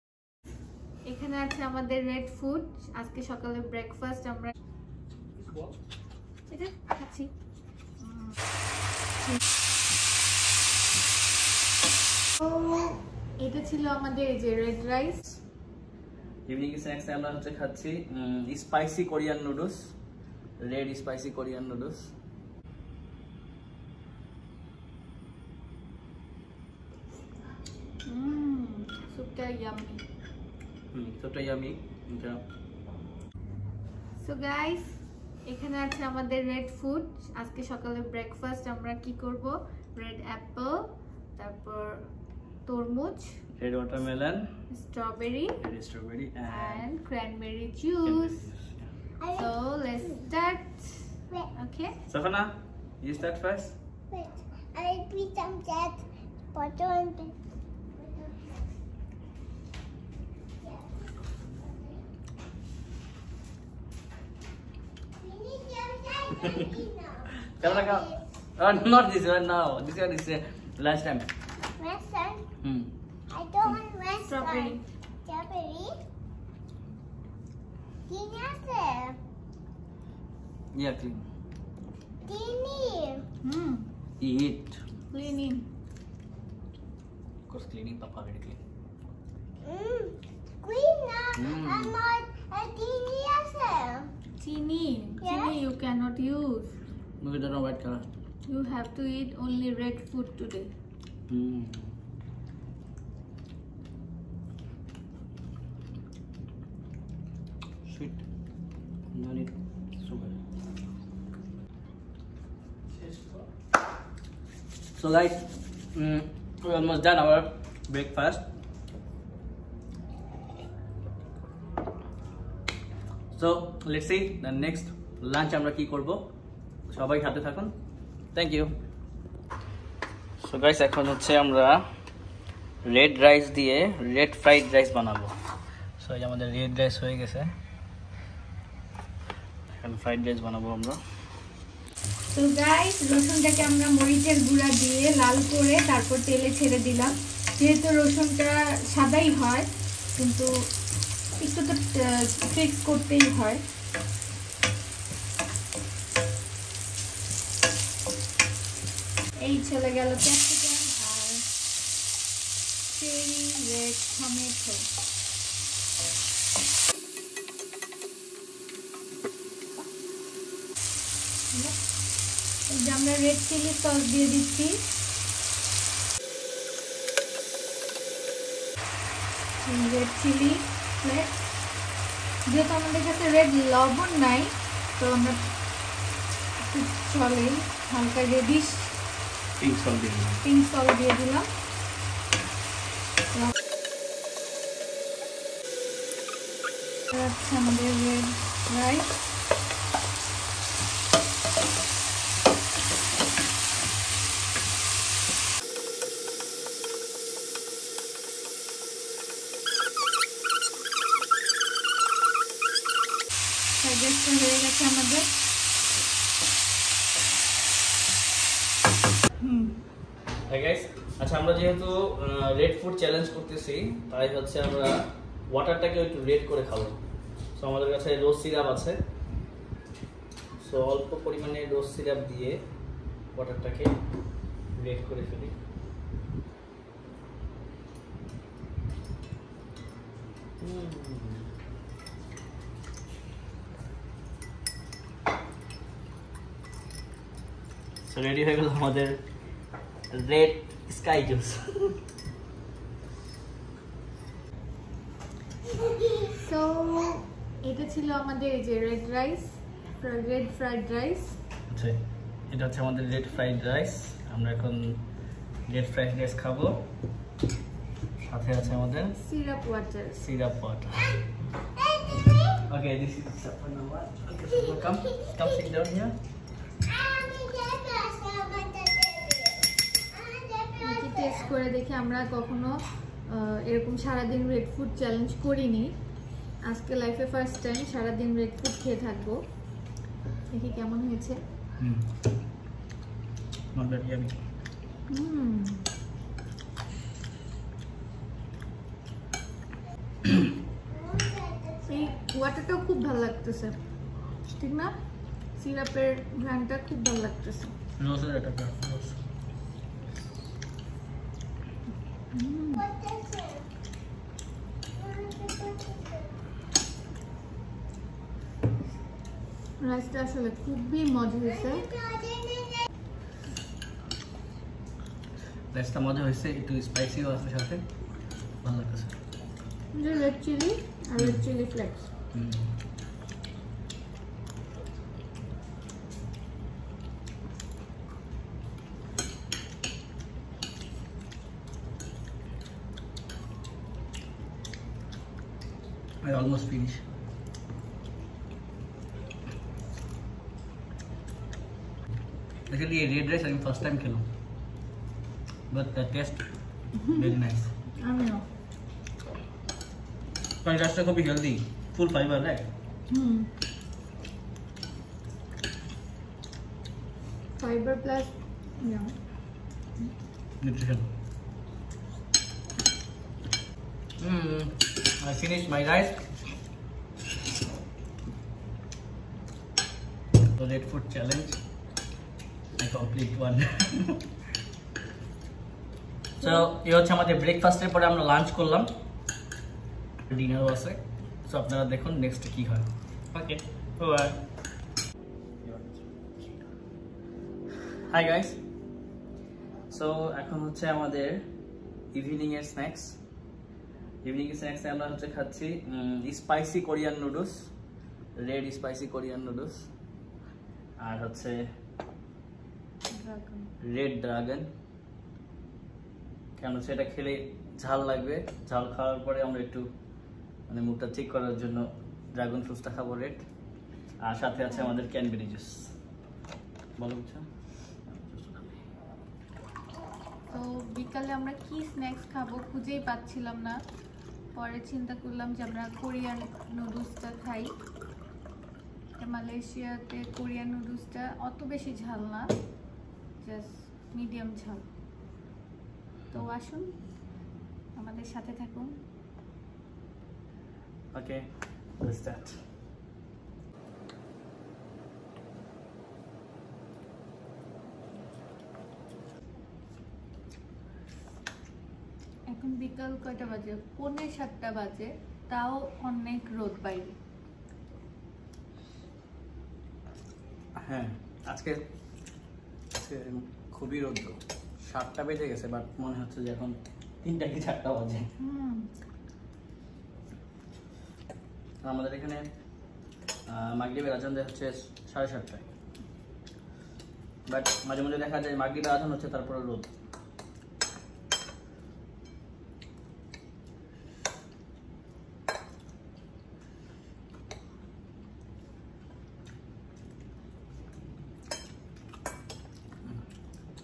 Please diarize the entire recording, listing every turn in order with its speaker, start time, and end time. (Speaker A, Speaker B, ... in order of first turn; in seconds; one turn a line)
Speaker A: 1.1-4.5
Speaker B: 5.4-5.7
Speaker A: 6.5-7.3
Speaker A: 8.0-8.4
Speaker A: 12.4-15.2
Speaker B: 16.5-19.9
Speaker B: 20.6-22.1
Speaker A: 28.1-30.0
Speaker B: 30.9-32.4
Speaker A: 34.2-42.1
Speaker A: 42.7-43.4
Speaker B: 43.6-44.5
Speaker A: 44.7-45.6
Speaker B: 45.6-46.8
Speaker A: 46.5-48.5
Speaker B: 48.0-48.9
Speaker C: 49.2-49.5
Speaker A: 49.3-52.0
Speaker B: 52.1-53.8
Speaker C: 54.1-57.4
Speaker C: 58.0-58.6
Speaker C: 60.6-61.0
Speaker C: 65.2-68.2
Speaker B: 67.6-71.3
Speaker C: 71.8-72.5
Speaker B: 72.6-72.9
Speaker C: 73.3-76.0
Speaker A: 74.2-74.8
Speaker C: 78.1-79.2
Speaker B: 80.7-81.2
Speaker C: 82.2-83.3
Speaker A: 83.4-83.9
Speaker B: 84.2-84.8
Speaker A: 85.1-85.7
Speaker B: 87.5-88.6
Speaker C: 89.6-94.1
Speaker B: 91.3-91.9
Speaker A: 94.4-96.7
Speaker C: 95.2-95.5
Speaker B: 97.2-98.1
Speaker A: 98.5-100.7
Speaker B: 101.3-101.9
Speaker B: 107.9-108.2
Speaker B: 109.1-110.4
Speaker B: 112.9-113.5
Speaker B: 115.0-118.4
Speaker B: 123.3-126.3
Speaker B: 126.9-127.7
Speaker B: 128.3-128.7
Speaker B: 130.4-131.8
Speaker B: 132.8-135.3
Speaker B: 136.0-137.5
Speaker B: 139.8-141.0
Speaker A: 142.3-150.5
Speaker A: 151.4-153.6
Speaker A: 159.4-161.4
Speaker A: 162.9-164.9
Speaker A: 172.7-174.8
Speaker A: 179.6-181.3
Speaker A: 182.5-185.4
Speaker A: 186.7-189.0
Speaker B: 189.6-190.4
Speaker A: 190.4-191.5
Speaker A: 197.1-199.1
Speaker A: 213.8-215.3
Speaker A: 219.4-219.8
Speaker B: 220.5-227.0
Speaker B: 227.6-229.0
Speaker B: 230.6-232.6
Speaker B: 233.3-233.9
Speaker B: 234.8-235.6
Speaker B: 240.6-241.5
Speaker B: 248.0-249.2
Speaker B: 250.1-252.0
Speaker A: 256.3-261.4
Speaker B: 261.7-265.0
Speaker B: 265.7-266.9
Speaker B: 268.2-269.1
Speaker A: 269.1-270.2
Speaker B: 270.2-271.2
Speaker C: 271.6-272.7
Speaker B: 272.6-276.2
Speaker C: 274.7-275.4
Speaker C: 276.8-281.5
Speaker A: 280.8-285.9
Speaker A: 286.6-289.4
Speaker A: 290.5-291.4
Speaker B: 291.8-292.1
Speaker B: 293.7-294.4
Speaker A: 295.1-295.9
Speaker C: 300.9-302.0
Speaker A: 301.8-303.8
Speaker A: 304.5-304.9
Speaker A: 305.6-307.8
Speaker B: 308.0-309.2
Speaker A: 312.3-312.9
Speaker C: 312.7-313.7
Speaker C: 314.9-316.4
Speaker A: 319.8-321.9
Speaker C: 321.5-322.9
Speaker B: 325.7-327.8
Speaker B: 328.6-329.2
Speaker A: 329.9-332.1
Speaker B: 332.3-332.7
Speaker B: 346.2-347.0
Speaker B: 352.7-354.3
Speaker B: 355.7-356.4
Speaker A: 357.0-357.4
Speaker B: 357.1-357.7
Speaker A: 358.0-358.4
Speaker B: 360.6-362.7
Speaker A: 363.1-363.5
Speaker A: 367.6-369.1
Speaker B: 370.6-371.1
Speaker B: 374.2-376.2
Speaker B: 380.6-381.6
Speaker B: 382.8-384.2
Speaker B: 386.4-388.9
Speaker B: 390.3-394.4
Speaker B: 395.6-396.1
Speaker B: 397.8-398.6
Speaker B: 399.9-401.4
Speaker B: 402.1-403.2
Speaker B: 404.2-407.7
Speaker B: 408.4-409.9
Speaker B: 411.0-411.6
Speaker A: 413.1-413.7
Speaker B: 413.8-414.7
Speaker B: 416.6-419.9
Speaker B: 420.7-423.5
Speaker B: 424.2-425.9
Speaker B: 427.0-427.5
Speaker B: 428.1-428.8
Speaker A: 430.5-433.8
Speaker A: 434.6-437.7
Speaker A: 439.2-442.5
Speaker A: 443.4-444.9
Speaker A: 446.3-446.9
Speaker A: 448.0-448.9
Speaker B: 451.1-452.6
Speaker A: 462.5-467.2
Speaker B: 470.8-471.8
Speaker B: 472.9-478.3
Speaker A: 478.4-478.9
Speaker B: 481.8-482.4
Speaker B: 483.5-485.7
Speaker B: 487.5-489.9